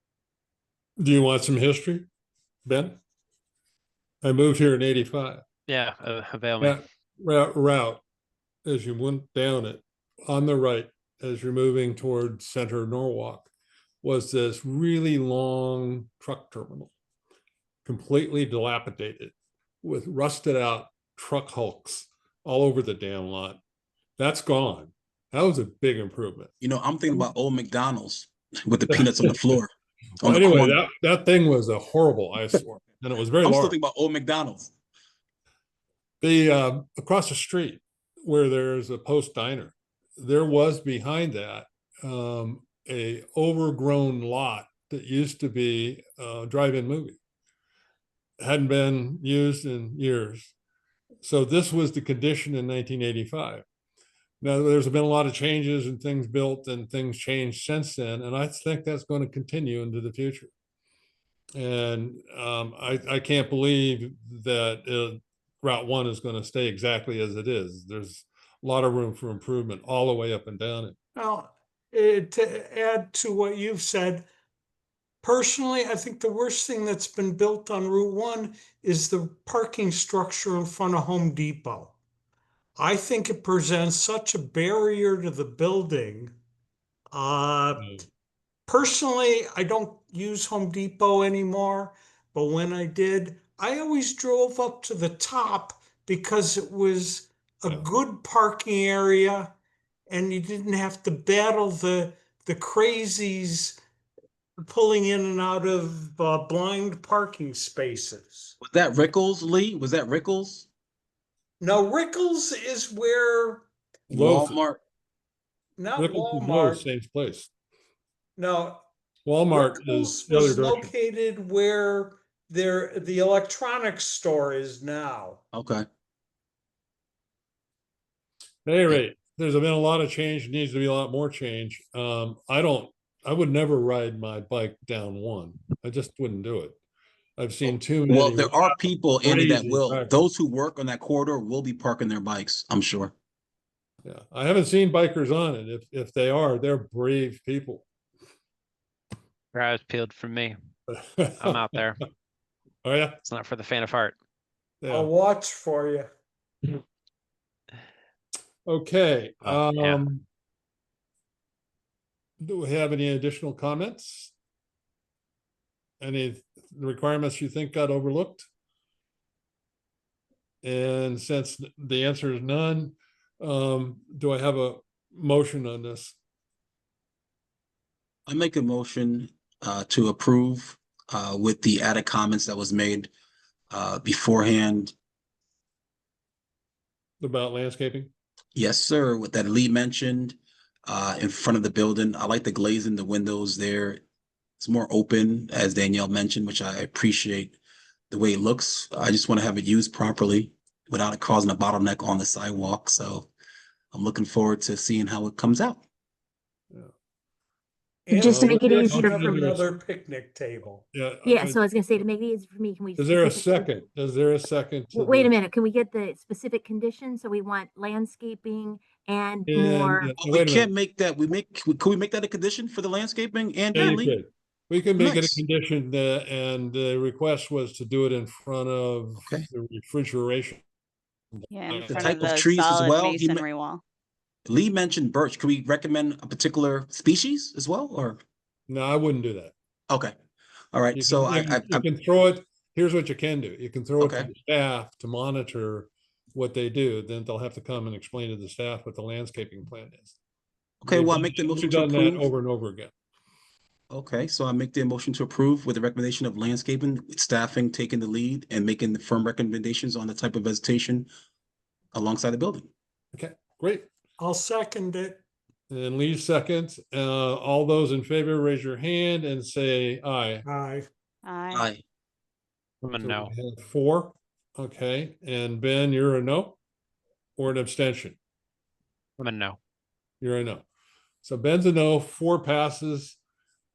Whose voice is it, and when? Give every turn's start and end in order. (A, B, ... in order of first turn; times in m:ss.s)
0:01.0-0:02.1 A
0:02.6-0:03.0 A
0:04.2-0:05.4 A
0:05.7-0:06.8 B
0:06.6-0:08.0 A
0:08.6-0:13.5 A
0:14.0-0:16.9 A
0:17.8-0:23.6 A
0:24.2-0:26.5 A
0:26.6-0:30.8 C
0:28.9-0:29.5 A
0:30.2-0:33.8 A
0:33.4-0:34.7 C
0:36.2-0:47.2 A
0:48.4-0:50.5 A
0:51.2-0:53.6 A
0:54.4-1:00.5 A
1:01.6-1:10.9 A
1:11.2-1:14.2 D
1:15.2-1:21.9 D
1:22.8-1:26.3 D
1:27.1-1:28.0 D
1:28.7-1:39.5 D
1:40.1-1:43.8 D
1:44.6-1:48.5 D
1:48.6-1:50.7 C
1:51.6-1:53.6 D
1:54.1-1:54.8 C
1:54.1-1:54.6 A
1:55.8-1:56.8 D
1:56.0-1:57.5 A
1:58.4-1:58.8 D
1:59.2-2:00.9 A
1:59.5-2:05.4 D
2:05.5-2:05.8 C
2:08.6-2:16.8 A
2:17.4-2:20.2 A
2:17.7-2:23.1 C
2:24.0-2:27.8 A
2:29.5-2:30.5 B
2:30.9-2:31.7 A
2:31.4-2:32.0 B
2:32.8-2:33.2 A
2:33.2-2:34.1 B
2:34.8-2:35.1 A
2:34.9-2:36.1 D
2:38.6-2:40.2 A
2:39.4-2:40.0 B
2:42.4-2:44.3 A
2:46.0-2:48.4 A
2:50.6-2:56.2 A
2:58.3-3:03.1 C
3:03.7-3:04.9 C
3:07.2-3:08.1 A
3:08.5-3:14.0 C
3:14.6-3:17.6 C
3:18.1-3:23.3 C
3:23.9-3:25.8 C
3:28.1-3:30.8 D
3:28.1-3:29.4 E
3:28.2-3:29.6 A
3:30.9-3:31.6 A
3:31.2-3:33.7 E
3:33.0-3:35.3 A
3:34.9-3:40.1 E
3:39.5-3:40.7 A
3:40.2-3:44.2 C
3:43.7-3:50.6 A
3:45.0-3:45.4 C
3:51.4-3:52.3 A
3:51.5-3:53.8 F
3:51.9-3:53.4 C
3:54.4-3:58.2 C
3:58.7-3:59.5 A
4:00.7-4:01.8 C
4:00.9-4:10.1 A
4:04.0-4:04.3 C
4:10.8-4:12.3 C
4:10.9-4:12.9 A
4:13.9-4:21.1 C
4:21.9-4:22.7 C
4:23.1-4:23.8 A
4:24.2-4:25.2 D
4:25.7-4:30.4 A
4:30.4-4:30.8 D
4:31.2-4:31.7 F
4:31.5-4:31.8 C
4:32.8-4:33.3 B
4:33.0-4:36.6 A
4:37.4-4:38.2 A
4:39.2-4:39.6 B
4:40.2-4:40.6 A
4:41.2-4:43.2 A